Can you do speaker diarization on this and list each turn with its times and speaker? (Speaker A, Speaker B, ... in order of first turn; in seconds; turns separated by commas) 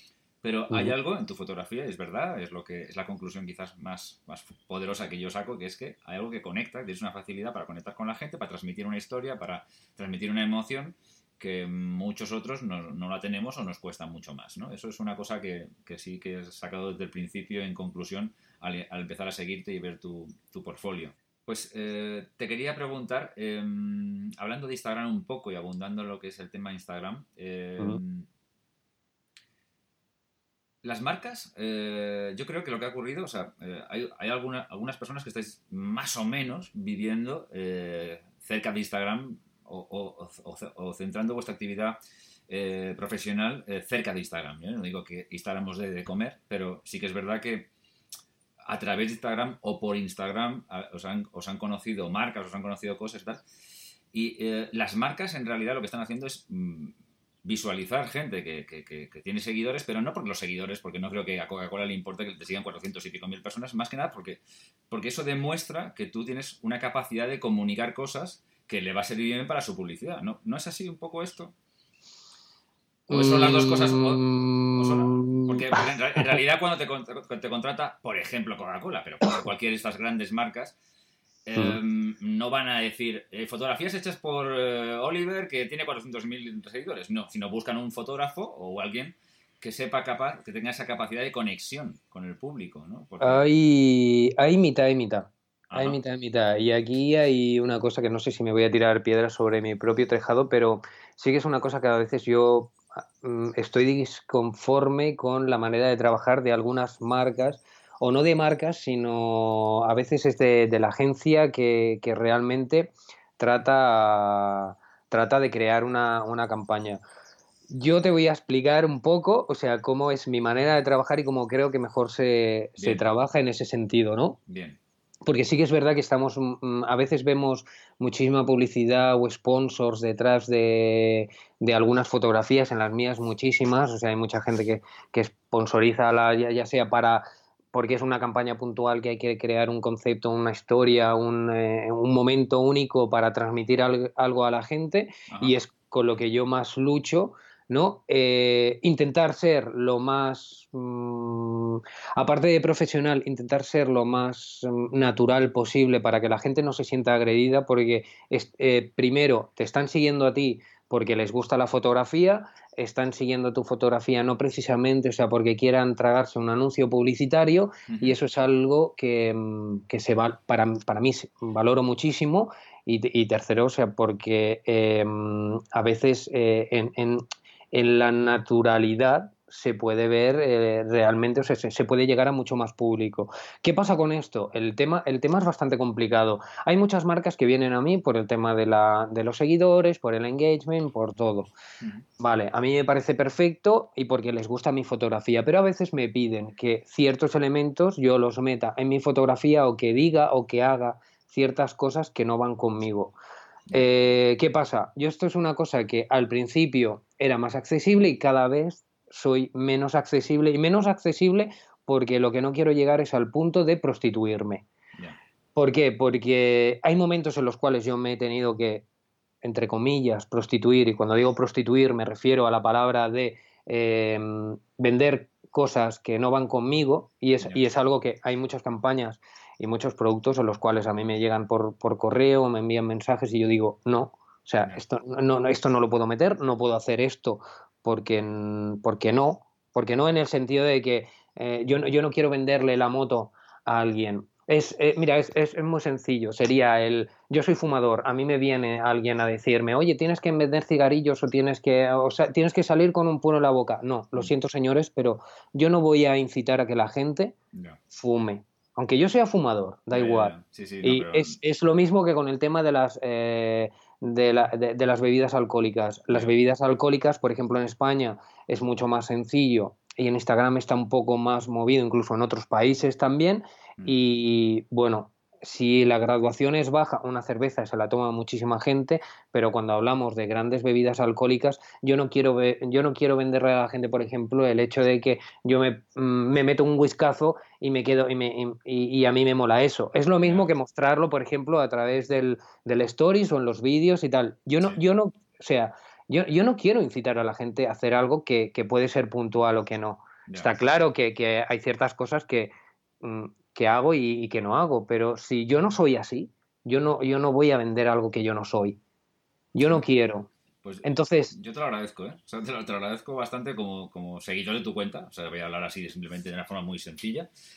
Speaker A: 0.4-28.3, Speaker A: 30.8-42.0, Speaker A: 42.5-47.7, Speaker A: 48.7-53.4, Speaker A: 54.1-71.5, Speaker B: 73.1-76.4, Speaker A: 73.1-80.8, Speaker A: 81.5-93.4, Speaker B: 93.2-117.0, Speaker A: 95.7-96.0, Speaker B: 117.7-124.4, Speaker A: 122.8-123.0, Speaker A: 124.5-124.8, Speaker B: 125.3-191.5, Speaker A: 145.3-145.6, Speaker A: 167.9-168.2, Speaker B: 192.2-203.2, Speaker A: 203.7-204.1, Speaker B: 203.7-214.7, Speaker B: 215.6-218.8, Speaker B: 219.4-257.4, Speaker A: 257.5-257.8, Speaker B: 257.9-308.8, Speaker A: 259.9-261.4, Speaker A: 290.2-290.5, Speaker B: 309.6-310.3, Speaker A: 310.6-317.3, Speaker B: 310.8-311.4